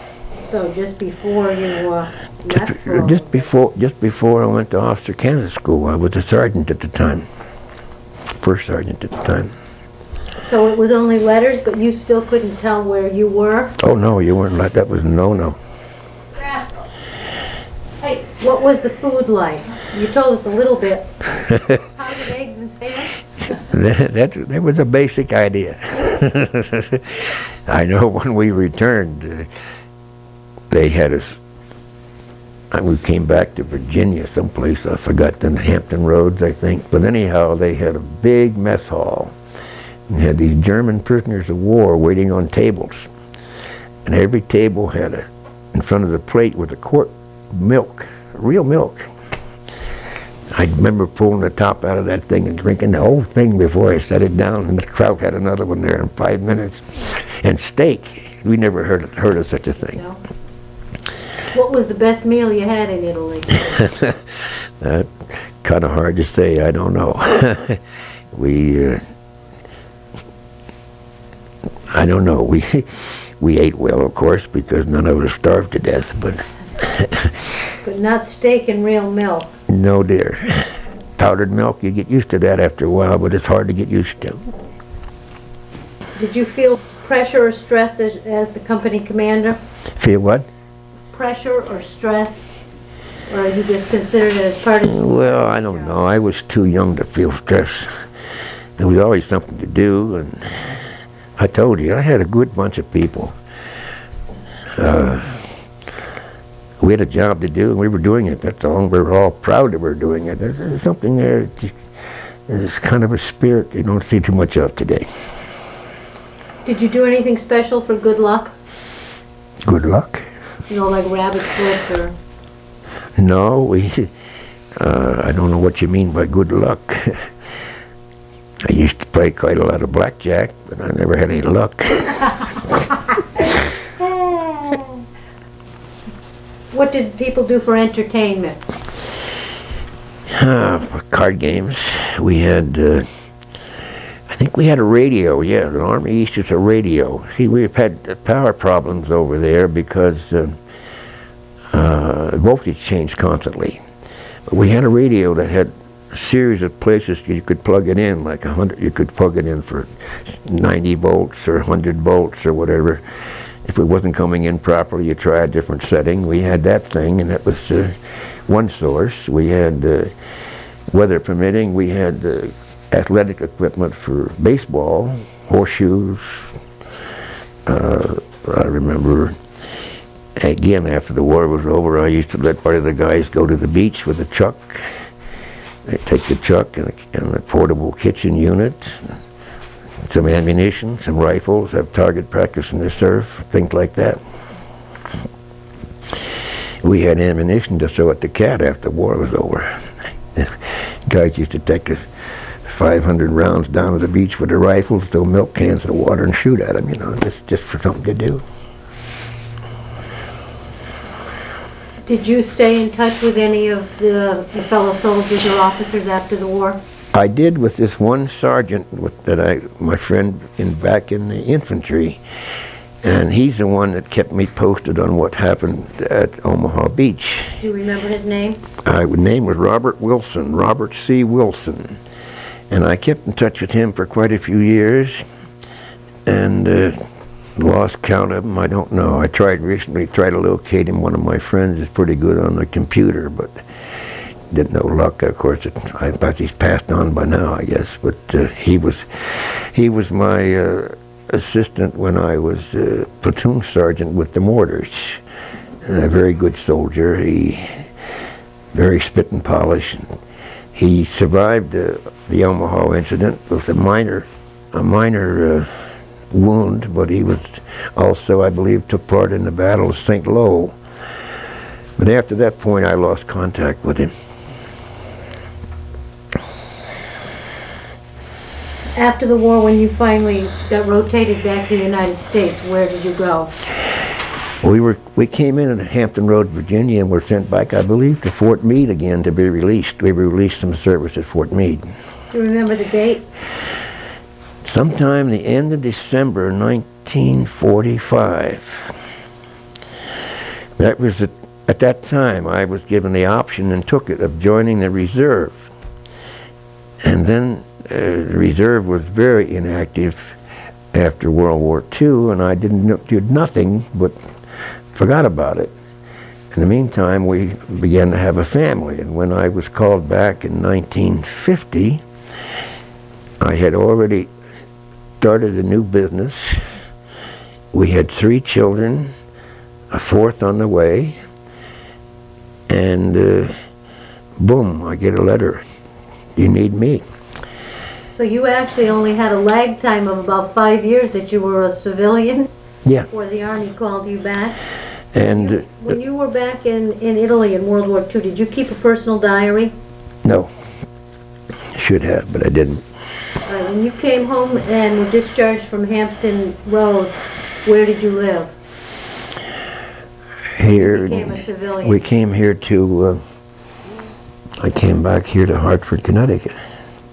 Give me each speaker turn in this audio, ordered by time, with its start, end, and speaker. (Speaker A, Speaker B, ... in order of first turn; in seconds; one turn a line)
Speaker A: 0.5-3.5
Speaker B: 2.5-7.3
Speaker B: 8.4-9.5
Speaker A: 10.4-13.8
Speaker B: 13.8-15.6
Speaker A: 18.1-21.1
Speaker A: 21.7-23.1
Speaker B: 23.4-29.5
Speaker B: 30.7-31.4
Speaker B: 32.7-39.3
Speaker B: 40.1-43.1
Speaker B: 44.0-49.1
Speaker B: 50.5-60.0
Speaker A: 61.5-64.0
Speaker B: 63.8-69.0
Speaker B: 71.9-77.5
Speaker A: 77.8-79.5
Speaker B: 79.7-84.5
Speaker A: 86.2-89.6
Speaker B: 90.0-90.5
Speaker A: 91.1-92.5
Speaker A: 93.3-95.9
Speaker B: 94.8-98.0
Speaker B: 98.8-103.3
Speaker B: 104.8-105.5
Speaker B: 106.8-111.8
Speaker B: 112.5-115.1
Speaker A: 116.6-118.5
Speaker B: 119.6-120.2
Speaker A: 120.7-122.1
Speaker B: 123.2-124.1
Speaker B: 124.8-127.3
Speaker B: 128.6-132.8
Speaker B: 133.4-133.7
Speaker A: 136.7-138.6
Speaker B: 140.3-143.1
Speaker B: 144.3-150.6
Speaker B: 151.7-153.8
Speaker B: 154.5-163.0
Speaker B: 163.6-170.1
Speaker B: 170.9-176.4
Speaker B: 177.7-179.4
Speaker B: 180.3-184.9
Speaker B: 185.8-189.2
Speaker B: 190.0-194.2
Speaker B: 196.8-202.1
Speaker B: 202.6-208.4
Speaker A: 212.1-216.8
Speaker B: 217.1-222.2
Speaker B: 223.0-227.6
Speaker A: 227.6-228.6
Speaker B: 228.8-232.0
Speaker B: 232.7-235.2
Speaker B: 236.2-237.0
Speaker B: 237.6-243.6
Speaker B: 244.5-255.2
Speaker B: 255.8-257.9
Speaker B: 258.7-260.1
Speaker B: 260.7-265.8
Speaker B: 266.3-270.8
Speaker B: 272.0-274.1
Speaker A: 278.9-283.5
Speaker B: 284.6-291.8
Speaker A: 292.3-293.2
Speaker B: 294.6-299.0
Speaker B: 300.8-305.7
Speaker B: 307.0-310.4
Speaker B: 310.9-314.2
Speaker B: 314.9-315.7
Speaker B: 316.5-322.0
Speaker B: 323.4-324.3
Speaker B: 325.2-326.6
Speaker B: 327.7-329.1
Speaker B: 329.9-331.2
Speaker B: 332.7-333.5
Speaker B: 334.4-335.6
Speaker B: 336.4-337.0
Speaker A: 338.1-342.5
Speaker A: 343.1-344.6
Speaker B: 345.1-345.8
Speaker A: 345.3-349.7
Speaker B: 350.2-350.5
Speaker B: 351.7-352.8
Speaker A: 353.4-358.5
Speaker B: 360.6-363.2
Speaker A: 360.6-362.1
Speaker B: 364.6-366.6